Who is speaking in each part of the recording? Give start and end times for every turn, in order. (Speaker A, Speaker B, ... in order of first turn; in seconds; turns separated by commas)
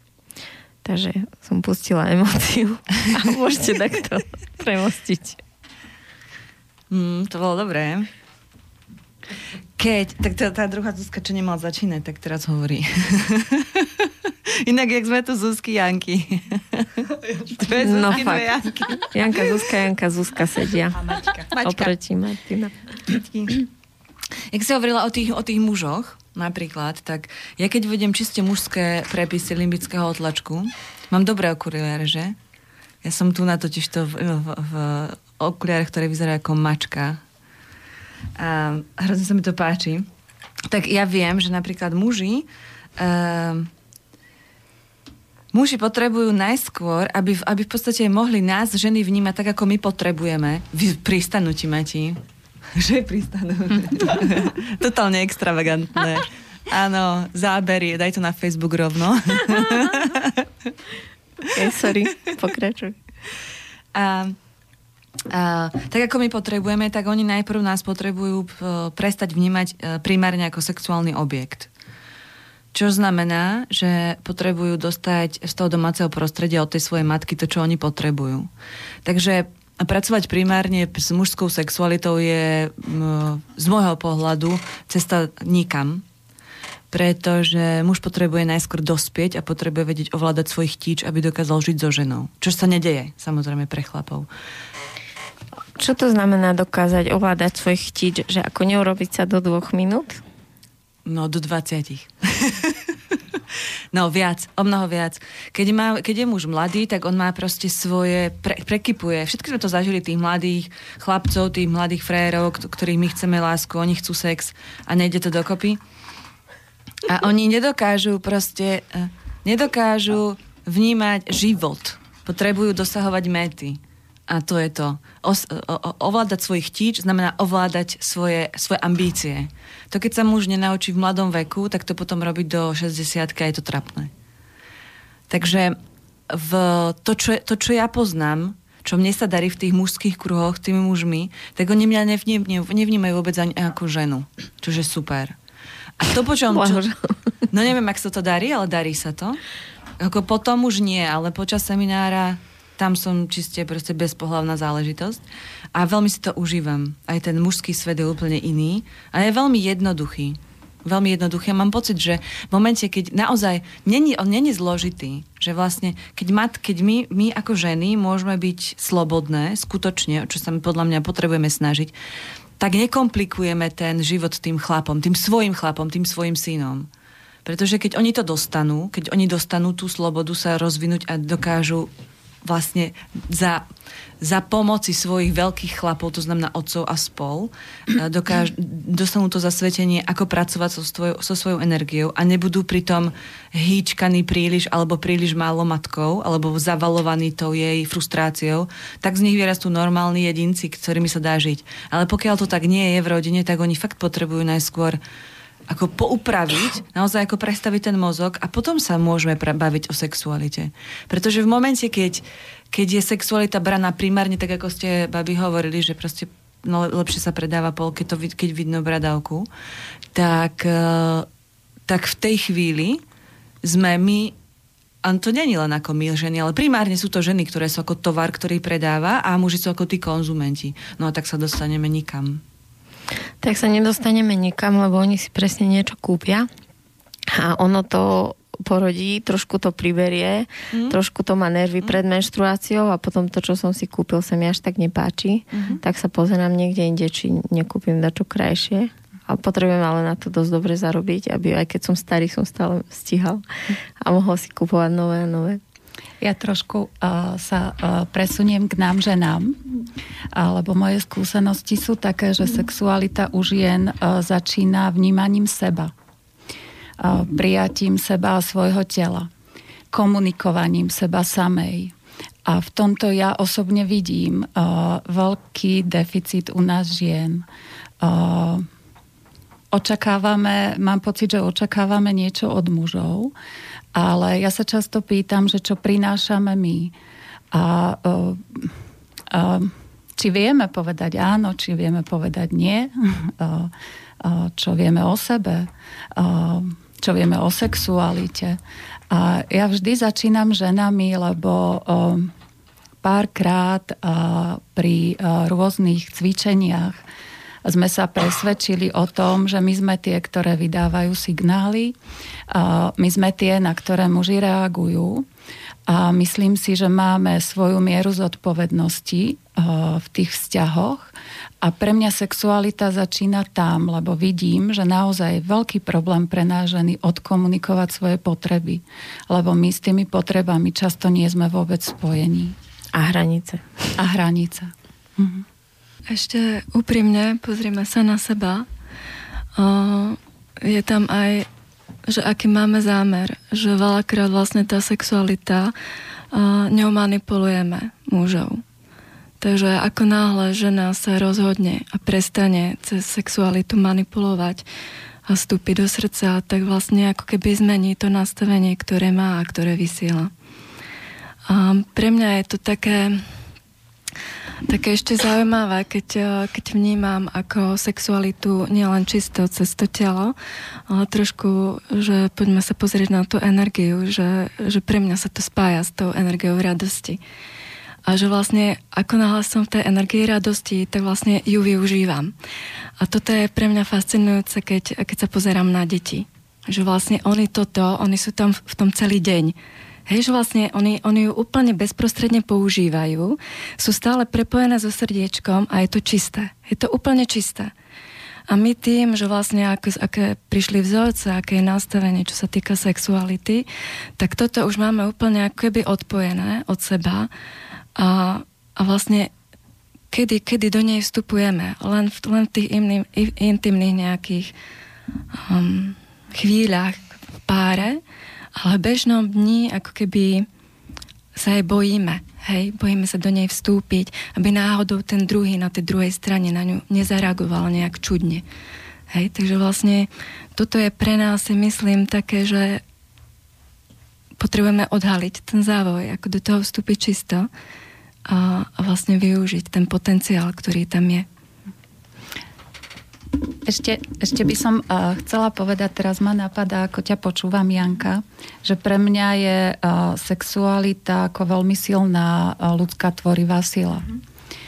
Speaker A: 0.8-5.4, Speaker B: 6.9-8.1, Speaker B: 9.8-19.6, Speaker A: 17.8-21.0, Speaker B: 21.0-21.9, Speaker A: 21.6-22.7, Speaker B: 23.1-23.6, Speaker B: 24.5-32.4, Speaker B: 33.0-37.2, Speaker B: 38.4-40.1, Speaker B: 40.7-42.5, Speaker B: 43.0-43.7, Speaker B: 45.5-52.2, Speaker B: 52.7-60.5, Speaker A: 61.4-63.0, Speaker B: 63.9-64.4, Speaker B: 65.3-71.7, Speaker B: 72.7-78.5, Speaker B: 79.0-86.0, Speaker B: 86.9-94.3, Speaker A: 95.8-100.2, Speaker B: 101.0-102.9, Speaker B: 103.9-115.8, Speaker B: 117.0-134.1, Speaker B: 135.3-135.8, Speaker B: 136.3-145.3, Speaker B: 146.0-146.8, Speaker A: 146.5-147.2, Speaker B: 147.5-149.4, Speaker B: 150.0-155.2, Speaker B: 155.7-171.9, Speaker B: 172.6-176.9, Speaker B: 177.4-181.9, Speaker B: 182.4-183.7, Speaker B: 184.2-205.0, Speaker B: 205.7-219.5, Speaker B: 220.1-221.3, Speaker B: 221.9-223.0, Speaker B: 223.6-224.3, Speaker B: 225.0-232.4, Speaker A: 233.4-236.5, Speaker A: 237.3-253.4, Speaker B: 245.5-245.8, Speaker A: 254.0-255.6, Speaker C: 256.2-259.6, Speaker C: 260.3-265.9, Speaker C: 267.0-269.3, Speaker C: 269.9-271.9, Speaker C: 272.4-277.5, Speaker C: 278.0-278.7, Speaker C: 279.7-283.3, Speaker C: 283.9-286.9, Speaker C: 287.5-288.7, Speaker C: 289.3-302.3, Speaker C: 303.0-307.0, Speaker C: 307.6-311.9, Speaker C: 312.5-315.3, Speaker C: 315.9-332.6, Speaker A: 332.9-333.9, Speaker C: 334.0-335.4, Speaker D: 336.1-338.7, Speaker D: 339.6-341.5, Speaker D: 342.1-345.7, Speaker D: 346.3-348.6, Speaker D: 349.4-354.6, Speaker D: 355.3-360.3, Speaker D: 361.5-363.3, Speaker D: 364.7-370.4, Speaker D: 370.9-377.2, Speaker D: 378.1-382.3, Speaker D: 383.0-389.6, Speaker D: 390.1-397.7, Speaker D: 398.5-403.6, Speaker D: 404.2-407.3, Speaker D: 407.9-409.3, Speaker D: 410.1-414.5, Speaker D: 415.4-418.0, Speaker D: 418.6-420.5, Speaker D: 421.3-428.4, Speaker D: 429.1-432.8, Speaker D: 434.4-437.5, Speaker D: 438.3-441.3, Speaker C: 443.6-454.2